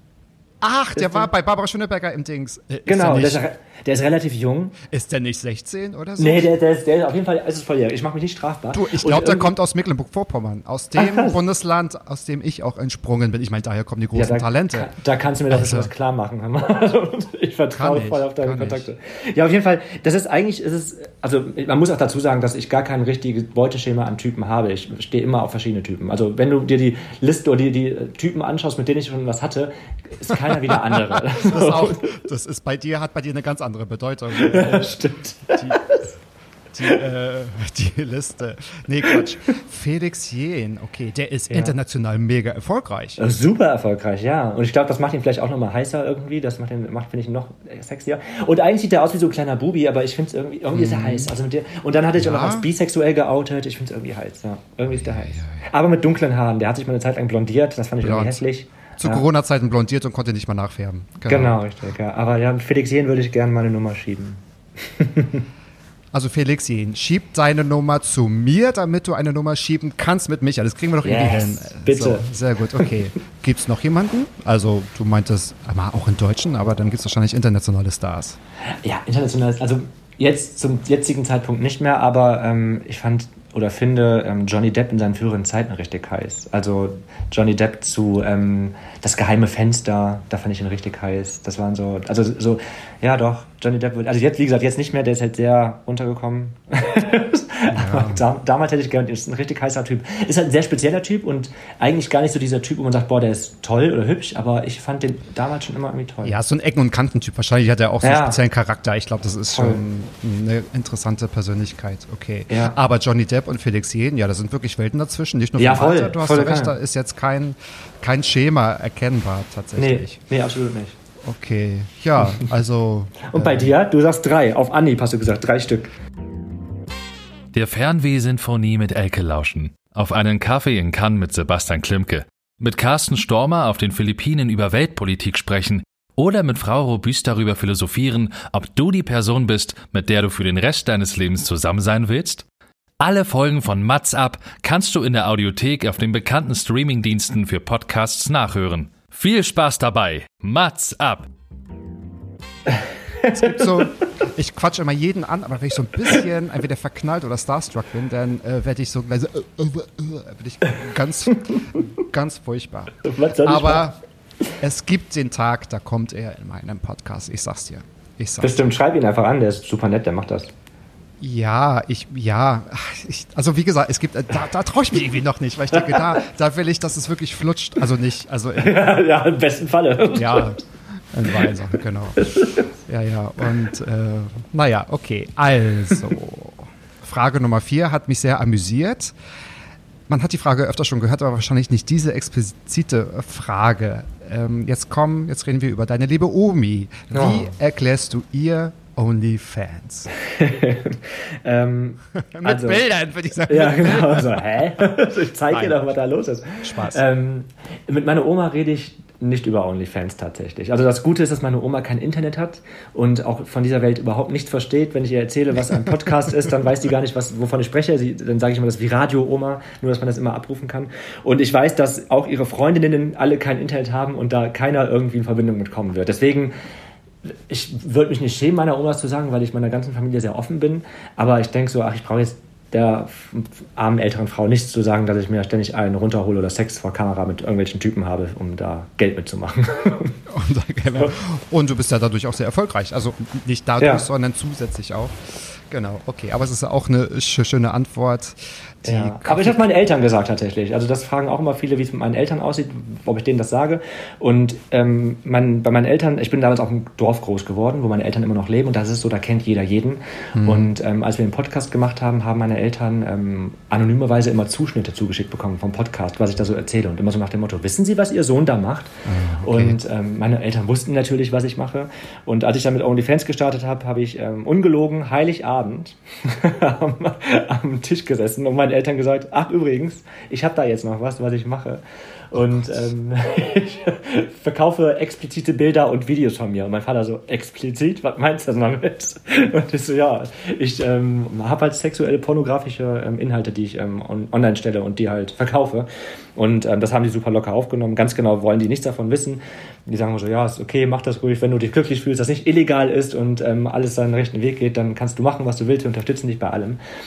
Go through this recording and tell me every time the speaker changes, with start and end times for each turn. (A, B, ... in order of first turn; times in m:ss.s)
0:00.6-0:03.4 A
0:01.0-0:01.3 B
0:02.9-0:04.8 B
0:04.8-0:06.5 A
0:06.2-0:09.5 B
0:08.7-0:14.9 A
0:11.0-0:11.4 B
0:14.1-0:32.1 B
0:15.5-0:15.9 A
0:17.7-0:18.9 A
0:30.7-0:36.0 A
0:34.3-0:36.0 B
0:36.7-0:43.2 A
0:41.5-0:41.8 B
0:43.2-0:59.2 B
0:50.7-0:51.3 A
0:52.2-0:52.7 A
0:55.0-0:55.6 A
0:58.0-0:58.4 A
0:59.0-1:01.6 A
1:01.3-1:05.4 B
1:06.1-1:18.4 A
1:11.0-1:12.3 B
1:18.8-1:46.4 B
1:37.7-1:38.2 A
1:46.2-2:00.2 A
1:48.0-1:48.4 B
1:49.5-1:49.8 B
1:52.5-1:52.8 B
1:55.6-1:56.8 B
1:59.8-2:01.0 B
2:01.2-2:03.7 A
2:03.3-2:05.9 B
2:07.5-2:22.4 C
2:23.0-2:31.3 C
2:33.2-2:33.6 B
2:33.2-2:44.0 A
2:43.0-2:43.9 B
2:44.6-2:48.5 A
2:48.4-2:50.5 B
2:51.2-2:58.8 A
2:58.6-3:00.5 B
3:00.2-3:00.6 A
3:01.1-3:02.3 A
3:02.2-3:02.6 B
3:02.9-3:09.2 A
3:10.1-3:20.1 A
3:17.1-3:17.5 B
3:20.2-3:22.8 B
3:22.2-3:24.6 A
3:23.5-3:46.5 B
3:25.5-3:25.8 A
3:26.6-3:27.0 A
3:47.5-4:00.2 B
4:00.3-4:09.7 A
4:03.8-4:04.0 B
4:08.8-5:06.8 B
4:20.4-4:20.7 A
4:29.0-4:29.8 A
4:42.5-4:42.8 A